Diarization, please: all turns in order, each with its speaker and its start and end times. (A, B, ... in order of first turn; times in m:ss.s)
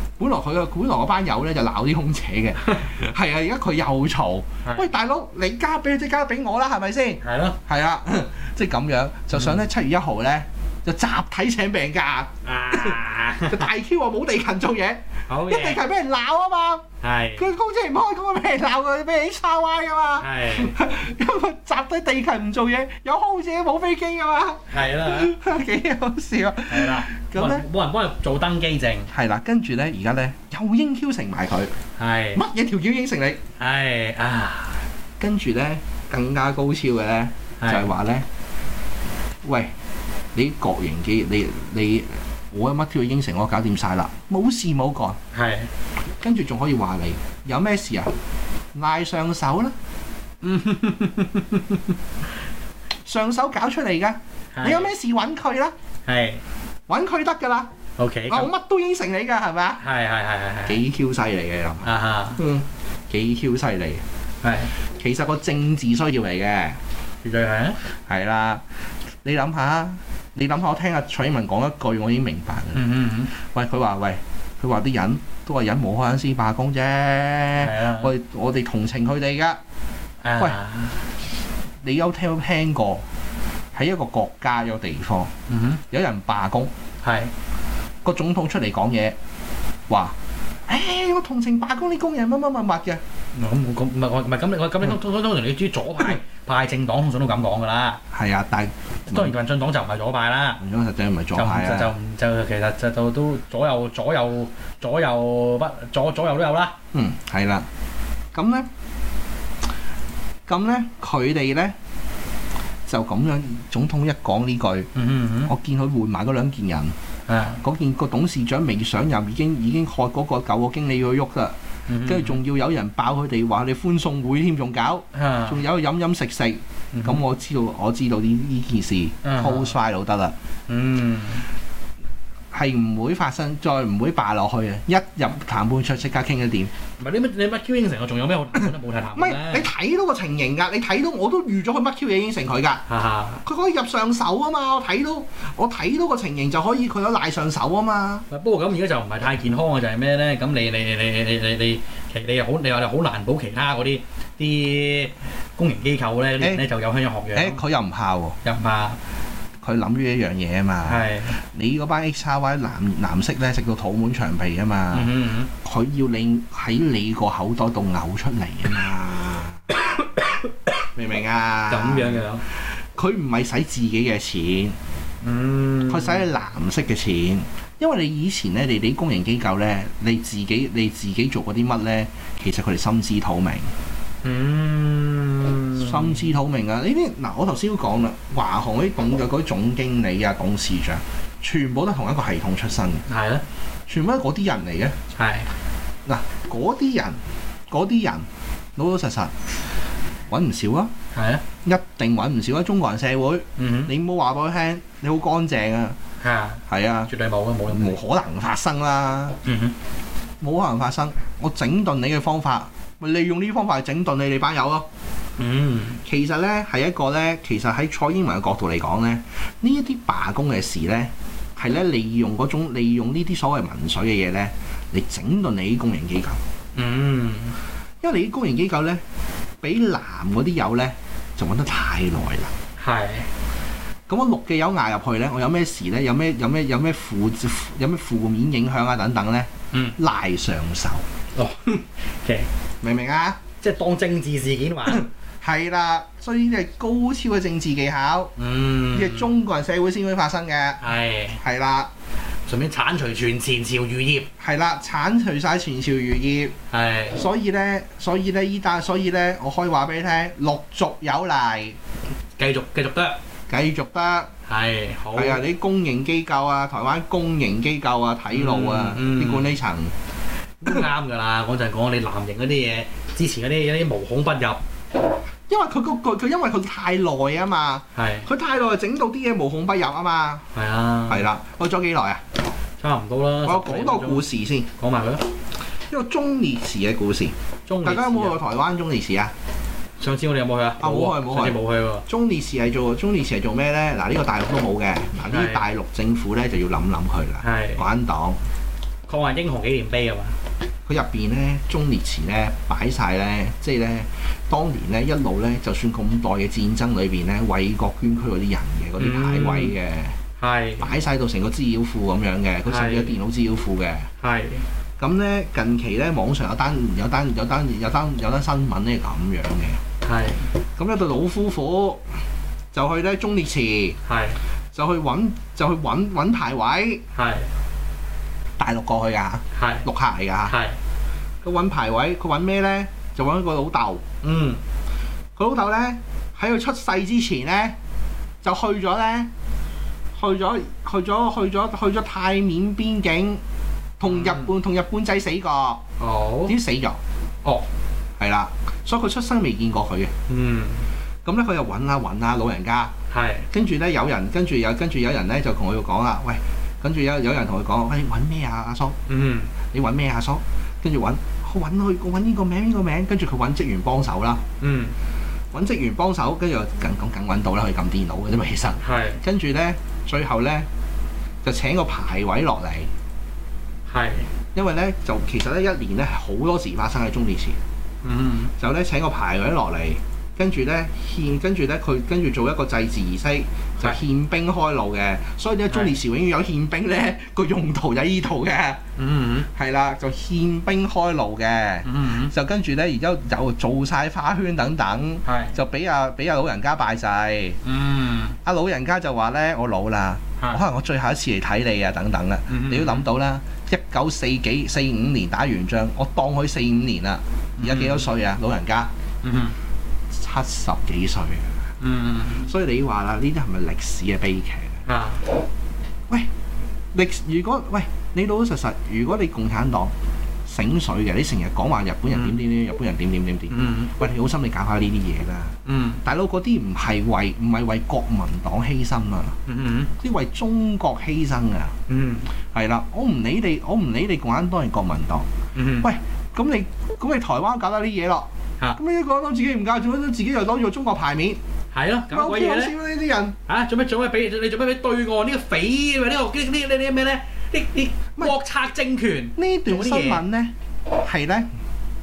0:00.2-0:16.8 A
0:04.6-0:04.9 B
0:07.2-0:07.6 B
0:09.4-0:09.6 B
0:12.4-0:13.6 B
0:15.3-0:15.8 B
0:17.0-0:17.5 B
0:17.4-0:27.6 A
0:20.2-0:20.8 B
0:24.7-0:25.3 B
0:26.7-0:29.1 B
0:29.1-0:31.7 A
0:32.0-0:32.4 B
0:32.3-0:33.4 A
0:33.6-0:34.8 B
0:35.2-0:38.2 A
0:37.6-0:37.9 B
0:39.4-0:39.7 A
0:40.3-0:45.2 A
0:45.3-0:45.7 B
0:46.2-0:48.1 A
0:48.7-0:49.7 A
0:50.4-0:51.8 B
0:53.0-0:55.7 A
0:54.5-0:54.9 B
0:56.1-0:56.4 B
0:56.9-0:57.7 A
0:58.0-0:58.5 B
0:58.3-0:59.8 A
0:59.8-1:00.8 B
1:00.6-1:04.0 A
1:01.8-1:02.4 B
1:04.4-1:04.7 B
1:05.0-1:06.8 A
1:07.2-1:07.8 B
1:07.9-1:08.6 A
1:09.2-1:19.6 A
1:12.7-1:13.3 B
1:17.6-1:18.1 B
1:20.2-1:21.0 B
1:21.8-1:23.0 A
1:23.7-1:25.3 A
1:25.5-1:25.8 B
1:25.9-1:26.7 A
1:27.0-1:27.3 B
1:28.0-1:29.2 A
1:29.9-1:30.1 A
1:30.7-1:33.0 A
1:33.4-1:38.0 B
1:38.1-1:39.3 A
1:39.1-1:40.6 B
1:40.6-1:41.9 A
1:41.3-1:46.7 B
1:46.9-1:47.7 A
1:48.3-1:48.7 A
1:50.5-1:51.7 A
1:52.9-1:54.9 A
1:54.9-1:55.5 B
1:55.4-1:56.9 A
1:57.3-1:57.6 B
1:57.6-2:10.3 A
2:01.9-2:02.4 B
2:05.1-2:05.6 B
2:06.9-2:07.2 B
2:09.2-2:09.7 B
2:10.7-2:11.5 B
2:12.5-2:16.7 A
2:17.0-2:19.7 B
2:19.1-2:22.8 A
2:22.9-2:23.4 B
2:23.4-2:28.2 A
2:28.3-2:37.6 B
2:36.4-2:36.6 A
2:37.3-2:38.4 A
2:38.4-2:39.0 B
2:39.6-2:49.6 A
2:40.8-2:41.4 B
2:44.9-2:45.5 B
2:50.9-2:54.8 A
2:51.7-2:52.4 B
2:55.2-2:56.2 B
2:55.9-3:03.7 A
3:04.2-3:06.3 B
3:05.8-3:13.0 A
3:13.1-3:13.4 B
3:13.9-3:14.9 A
3:15.1-3:15.5 B
3:16.0-3:17.2 A
3:17.7-3:19.3 A
3:20.3-3:20.9 A
3:21.1-3:21.4 B
3:21.6-3:26.0 A
3:23.6-3:23.9 B
3:26.2-3:28.0 B
3:26.7-3:27.1 A
3:27.7-3:29.4 A
3:29.4-3:29.7 B
3:30.4-3:34.8 A
3:35.4-3:36.0 B
3:36.0-3:46.4 A
3:46.7-3:47.6 B
3:48.0-3:49.0 A
3:49.6-3:52.5 A
3:52.8-3:53.3 B
3:54.1-4:01.0 A
4:01.4-4:02.5 B
4:02.8-4:03.4 A
4:03.6-4:05.0 B
4:04.8-4:08.3 A
4:08.4-4:09.4 B
4:08.9-4:10.8 A
4:10.8-4:11.4 B
4:11.4-4:11.9 A
4:12.5-4:14.3 B
4:14.4-4:16.5 A
4:16.7-4:17.2 B
4:17.1-4:21.8 A
4:22.4-4:23.2 B
4:23.5-4:24.3 A
4:24.5-4:25.4 B
4:25.1-4:29.9 A
4:28.3-4:29.5 B
4:30.6-4:34.6 B
4:35.5-4:40.4 A
4:37.9-4:38.3 B
4:40.5-4:41.3 B
4:41.1-4:42.2 A
4:42.8-4:44.2 B
4:43.4-4:44.7 A
4:44.8-4:45.2 B
4:45.9-4:49.3 A
4:47.7-4:48.4 B
4:50.0-4:52.0 B
4:50.8-4:58.4 A
4:55.2-4:55.6 B
4:57.4-4:57.8 B
4:59.1-5:00.4 B
5:00.9-5:10.1 A
5:09.0-5:09.8 B
5:10.4-5:10.9 B
5:10.8-5:14.1 A
5:12.6-5:13.2 B
5:14.2-5:14.6 B
5:15.0-5:19.8 A
5:20.0-5:20.5 B
5:20.8-5:22.0 A
5:22.7-5:24.0 A
5:24.0-5:24.4 B
5:24.7-5:27.0 A
5:27.1-5:27.5 B
5:28.6-5:30.5 A
5:29.5-5:29.9 B
5:30.4-5:30.8 B
5:31.4-5:34.0 A
5:34.2-5:34.6 B
5:35.4-5:37.7 A
5:38.4-5:39.3 A
5:40.2-5:43.4 A
5:44.0-5:45.8 A
5:44.0-5:44.5 B
5:46.0-5:46.6 B
5:46.5-5:47.0 A
5:48.2-5:50.1 A
5:50.3-5:50.9 B
5:51.2-5:52.9 A
5:53.1-5:53.5 B
5:53.5-5:59.0 A
5:59.1-5:59.5 B
5:59.7-6:04.4 A
6:04.6-6:04.9 B
6:05.5-6:10.7 A
6:08.8-6:09.2 B
6:11.4-6:12.9 A
6:13.9-6:14.3 B
6:14.5-6:17.6 A
6:18.0-6:18.5 B
6:18.6-6:28.8 A
6:29.0-6:29.5 B
6:29.5-6:37.6 A
6:31.8-6:32.3 B
6:35.2-6:35.6 B
6:37.6-6:38.4 B
6:38.4-6:48.9 A
6:42.5-6:43.1 B
6:47.6-6:48.1 B
6:49.2-6:49.6 B
6:50.1-6:51.5 A
6:51.8-6:52.5 B
6:52.4-6:54.8 A
6:54.8-6:55.2 B
6:56.9-6:59.9 A
7:00.5-7:09.4 A
7:02.1-7:02.4 B
7:03.5-7:03.9 B
7:05.6-7:06.0 B
7:09.5-7:09.9 B
7:10.0-7:11.7 A
7:11.9-7:12.3 B
7:12.5-7:15.2 A
7:15.5-7:15.9 B
7:15.8-7:21.4 A
7:21.7-7:22.7 B
7:22.1-7:23.4 A
7:23.5-7:30.2 B
7:29.4-7:31.5 A